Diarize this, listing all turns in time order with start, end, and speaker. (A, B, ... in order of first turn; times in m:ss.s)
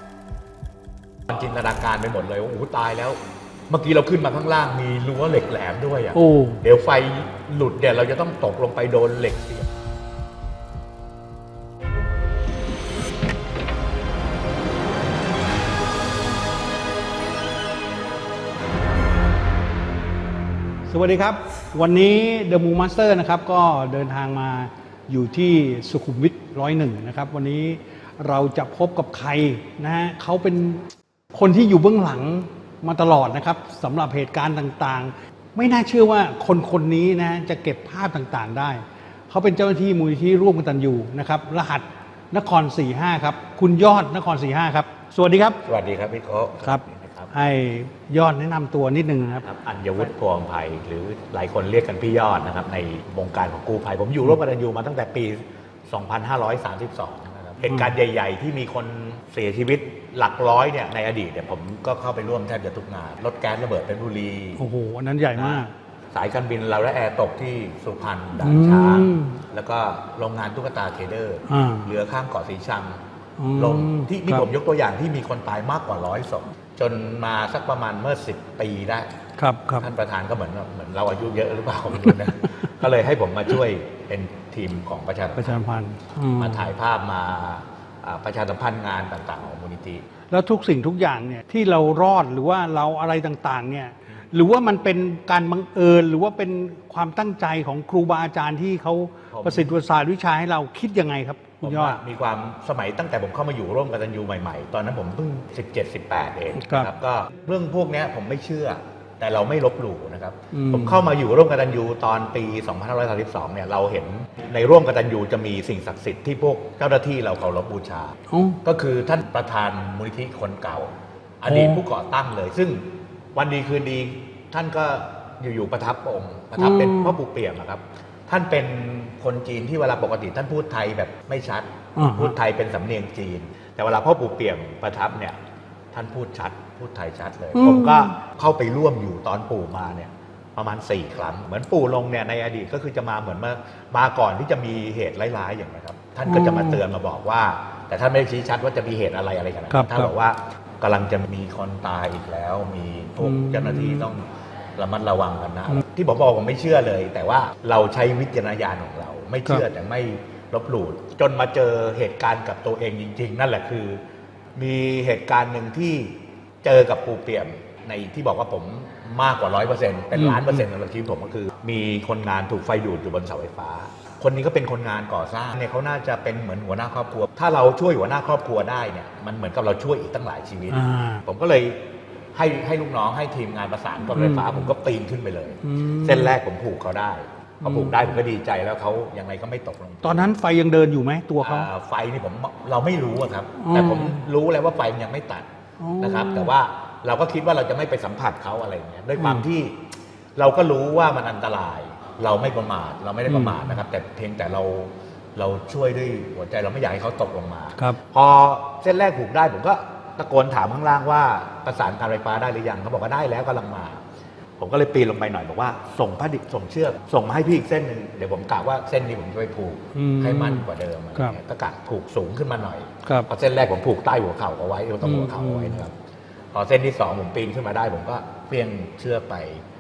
0:01.3-0:03.2 A
0:03.7-0:09.7 A
0:06.2-0:06.6 B
0:20.9-0:45.6 B
0:45.6-0:47.3 A
0:46.6-0:49.4 B
0:49.3-1:04.6 A
0:57.6-0:57.9 B
1:04.6-1:05.7 B
1:05.4-1:13.0 A
1:08.4-1:09.4 B
1:11.5-1:11.9 B
1:13.4-1:14.5 B
1:13.6-1:19.1 A
1:19.4-1:19.9 B
1:19.8-1:25.6 A
1:22.0-1:22.3 B
1:25.4-1:26.7 B
1:26.4-1:30.0 A
1:30.3-1:42.0 B
1:39.3-1:39.8 A
1:41.6-2:15.4 A
1:46.6-1:46.9 B
1:50.5-1:51.0 B
1:58.3-1:58.6 B
2:01.5-2:01.8 B
2:06.6-2:07.2 B
2:12.0-2:12.3 B
2:15.9-2:44.0 A
2:17.5-2:18.2 B
2:26.3-2:26.8 B
2:29.7-2:30.1 B
2:33.2-2:34.1 B
2:44.6-3:01.8 A
2:50.1-2:50.6 B
3:00.7-3:01.2 B
3:02.3-3:10.3 A
3:04.1-3:04.7 B
3:05.6-3:06.3 B
3:07.6-3:08.1 B
3:10.0-3:11.7 B
3:11.4-3:15.5 A
3:13.6-3:14.2 B
3:15.8-3:16.5 B
3:16.0-3:19.8 A
3:19.2-3:19.4 B
3:20.4-3:34.0 A
3:23.3-3:23.8 B
3:34.6-3:46.0 A
3:39.9-3:41.4 B
3:45.0-3:45.8 B
3:46.5-3:49.6 A